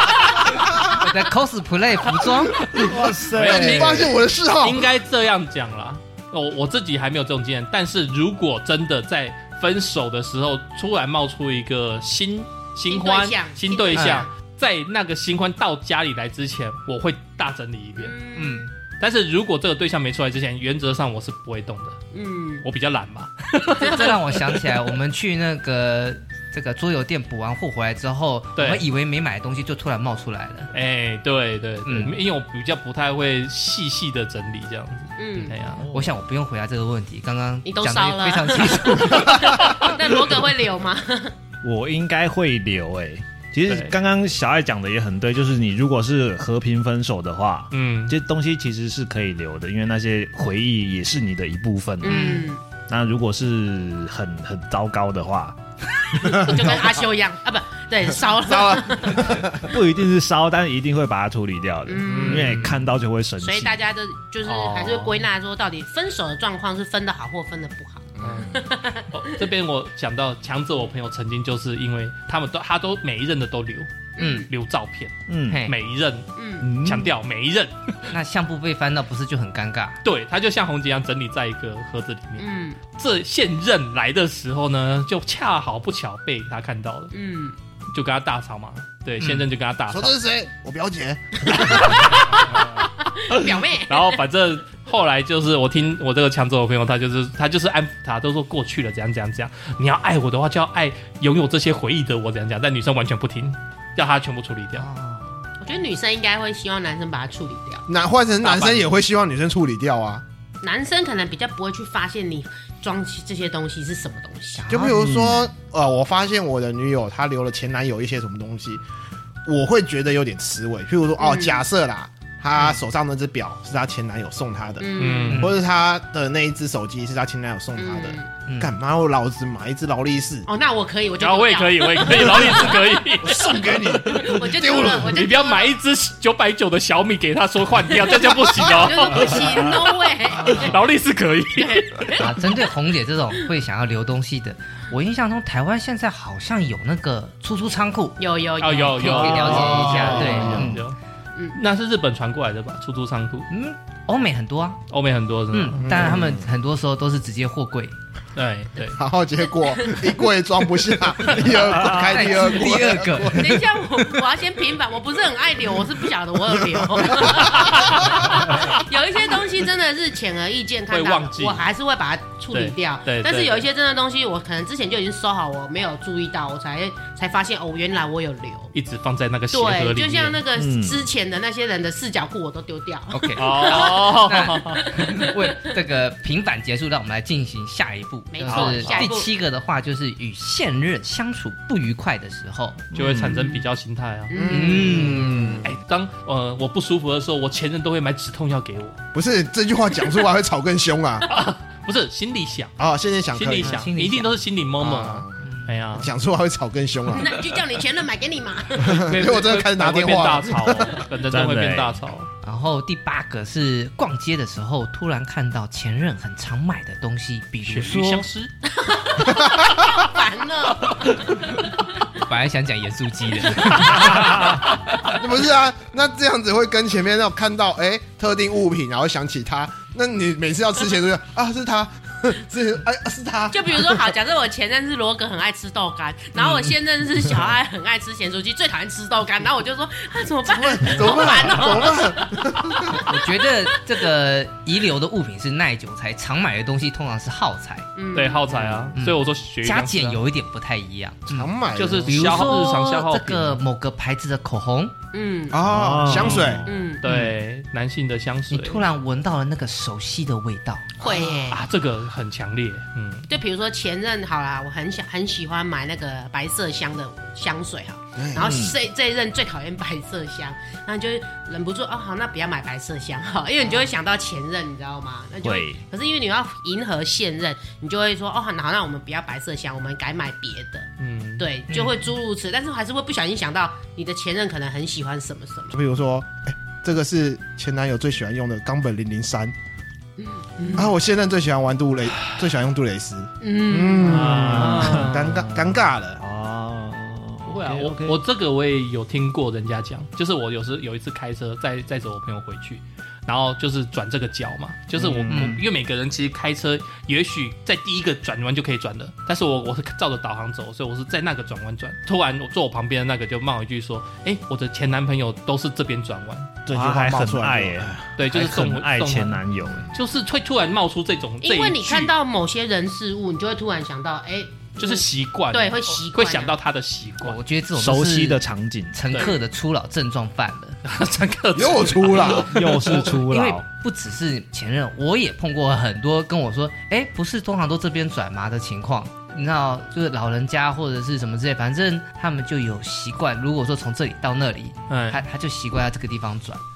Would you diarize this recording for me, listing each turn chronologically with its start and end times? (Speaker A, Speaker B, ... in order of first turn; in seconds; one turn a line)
Speaker A: 0.5-0.9
Speaker B: 0.9-2.8
Speaker C: 2.7-18.1
Speaker D: 2.8-4.1
Speaker A: 3.3-4.9
Speaker E: 12.9-14.3
Speaker B: 13.9-14.3
Speaker E: 18.0-18.6
Speaker B: 18.4-18.7
Speaker C: 19.0-22.0
Speaker E: 22.1-22.6
Speaker C: 22.6-24.4
Speaker B: 23.8-30.7
Speaker E: 23.8-24.1
Speaker C: 28.6-28.8
Speaker C: 30.7-35.8
Speaker B: 31.8-32.2
Speaker E: 35.2-35.6
Speaker D: 35.8-36.1
Speaker B: 35.9-39.7
Speaker E: 37.6-41.3
Speaker D: 41.6-56.5
Speaker C: 43.7-43.9
Speaker C: 47.7-48.1
Speaker E: 52.0-52.6
Speaker B: 52.0-52.5
Speaker A: 56.2-56.8
Speaker E: 56.3-59.4
Speaker A: 58.4-59.7
Speaker D: 59.6-63.8
Speaker E: 61.9-62.6
Speaker A: 62.0-62.5
Speaker C: 62.3-62.7
Speaker E: 63.4-69.1
Speaker C: 64.4-65.2
Speaker A: 68.2-68.6
Speaker C: 68.2-68.5
Speaker C: 69.1-78.0
Speaker E: 74.2-74.5
Speaker B: 74.2-74.5
Speaker D: 75.3-75.7
Speaker B: 75.5-75.7
Speaker E: 76.3-76.7
Speaker D: 76.6-77.1
Speaker B: 78.1-80.0
Speaker C: 80.0-87.1
Speaker E: 82.4-82.8
Speaker E: 87.1-87.5
Speaker C: 87.9-90.1
Speaker A: 89.9-92.0
Speaker C: 91.7-104.9
Speaker E: 92.1-94.2
Speaker B: 104.7-105.5
Speaker E: 105.6-107.9
Speaker A: 107.9-110.2
Speaker C: 108.4-108.9
Speaker E: 110.6-114.7
Speaker B: 114.5-115.2
Speaker A: 114.7-118.8
Speaker A: 119.4-130.5
Speaker E: 121.2-121.6
Speaker E: 124.8-125.4
Speaker C: 125.0-125.5
Speaker B: 125.3-125.6
Speaker E: 127.8-128.3
Speaker B: 128.4-128.8
Speaker E: 130.4-135.7
Speaker C: 131.2-134.4
Speaker A: 133.2-135.2
Speaker C: 135.0-142.1
Speaker E: 138.1-140.8
Speaker B: 140.4-140.8
Speaker E: 141.5-142.5
Speaker B: 142.2-150.8
Speaker E: 148.2-150.6
Speaker C: 148.6-151.0
Speaker A: 149.5-150.7
Speaker C: 151.5-153.5
Speaker B: 153.5-154.8
Speaker C: 154.9-155.9
Speaker B: 155.5-157.9
Speaker A: 155.8-156.5
Speaker C: 158.3-159.0
Speaker A: 158.9-163.6
Speaker E: 159.6-160.1
Speaker D: 161.7-162.2
Speaker B: 161.8-163.6
Speaker E: 163.2-178.7
Speaker A: 166.7-167.5
Speaker C: 167.3-168.7
Speaker C: 170.9-171.7
Speaker C: 172.5-173.6
Speaker C: 178.7-180.4
Speaker E: 179.5-185.5
Speaker D: 180.5-181.0
Speaker B: 183.1-192.8
Speaker C: 183.3-184.8
Speaker E: 188.3-189.3
Speaker C: 188.4-189.1
Speaker D: 192.9-193.5
Speaker C: 192.9-194.3
Speaker E: 194.3-195.2
Speaker A: 194.3-195.7
Speaker B: 194.4-195.6
Speaker C: 195.6-199.0
Speaker A: 199.1-201.3
Speaker C: 201.3-202.8
Speaker A: 202.8-203.8
Speaker C: 203.3-206.1
Speaker B: 203.6-204.4
Speaker A: 204.8-205.4
Speaker B: 205.4-205.7
Speaker A: 205.9-207.4
Speaker E: 207.1-209.0
Speaker A: 208.8-211.1
Speaker C: 208.8-212.3
Speaker D: 211.3-212.0
Speaker B: 212.4-218.3
Speaker C: 217.6-218.5
Speaker E: 218.7-221.5
Speaker A: 219.2-220.0
Speaker B: 222.1-224.7
Speaker E: 223.6-224.1
Speaker D: 224.1-224.6
Speaker A: 225.1-234.1
Speaker E: 233.5-243.2
Speaker B: 236.4-236.7
Speaker A: 240.4-243.0
Speaker B: 243.0-247.9
Speaker E: 247.9-248.6
Speaker C: 248.1-250.2
Speaker A: 248.5-248.9
Speaker B: 248.9-251.5
Speaker A: 251.3-252.4
Speaker C: 251.7-253.6
Speaker B: 252.1-254.9
Speaker E: 255.1-257.0
Speaker A: 255.5-256.6
Speaker D: 255.7-256.7
Speaker C: 257.0-258.8
Speaker B: 257.0-257.3
Speaker B: 258.5-260.9
Speaker E: 261.0-261.6
Speaker C: 261.1-263.3
Speaker E: 263.3-285.7
Speaker A: 268.1-268.6
Speaker D: 268.4-268.8
Speaker D: 275.4-275.8
Speaker C: 281.0-281.5
Speaker A: 285.7-289.5
Speaker E: 290.2-290.9
Speaker A: 290.7-296.2
Speaker E: 293.4-294.4
Speaker C: 294.0-295.4
Speaker D: 294.2-298.2
Speaker C: 297.4-316.6
Speaker D: 305.0-305.5
Speaker B: 305.3-305.6
Speaker D: 316.7-319.9
Speaker A: 316.7-317.9
Speaker C: 318.2-322.1
Speaker E: 321.4-326.6
Speaker C: 324.8-327.4
Speaker B: 327.2-330.8
Speaker D: 327.7-329.0
Speaker C: 330.8-333.1
Speaker A: 331.5-332.5
Speaker D: 332.3-333.6
Speaker B: 332.9-346.6
Speaker C: 344.9-345.2